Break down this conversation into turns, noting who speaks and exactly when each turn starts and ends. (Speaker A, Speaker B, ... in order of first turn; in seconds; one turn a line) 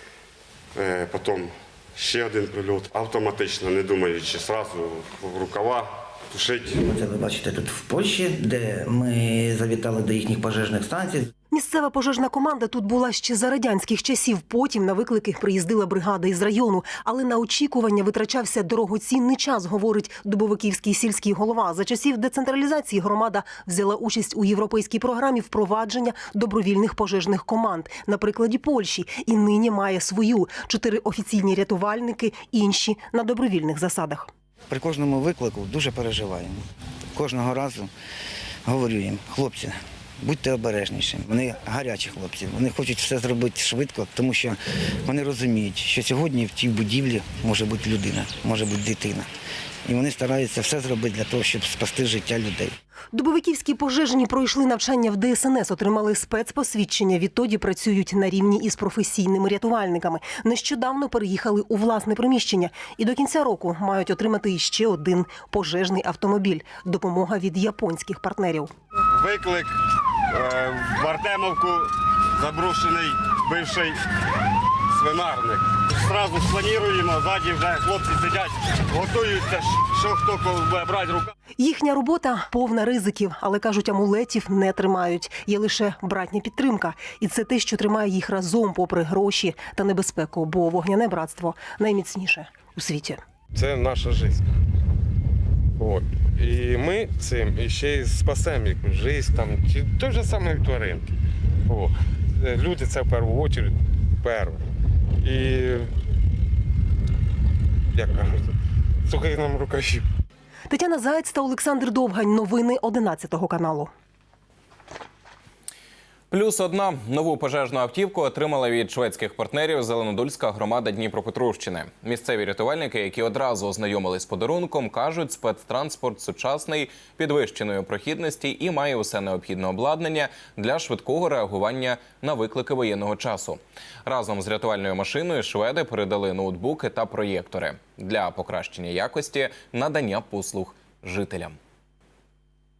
Speaker A: 0.8-6.8
Speaker B: 6.9-11.3
Speaker C: 11.5-34.3
Speaker B: 34.7-36.6
Speaker B: 37.1-37.9
Speaker B: 38.6-49.3
Speaker B: 49.9-52.7
Speaker C: 53.1-68.7
Speaker A: 69.1-69.8
Speaker A: 70.3-74.0
Speaker A: 74.9-81.3
Speaker C: 81.6-93.2
Speaker D: 93.5-94.5
Speaker D: 95.8-101.1
Speaker D: 101.7-104.6
Speaker D: 105.2-105.9
Speaker D: 107.9-108.5
Speaker D: 109.1-110.0
Speaker C: 110.7-113.9
Speaker E: 116.3-141.6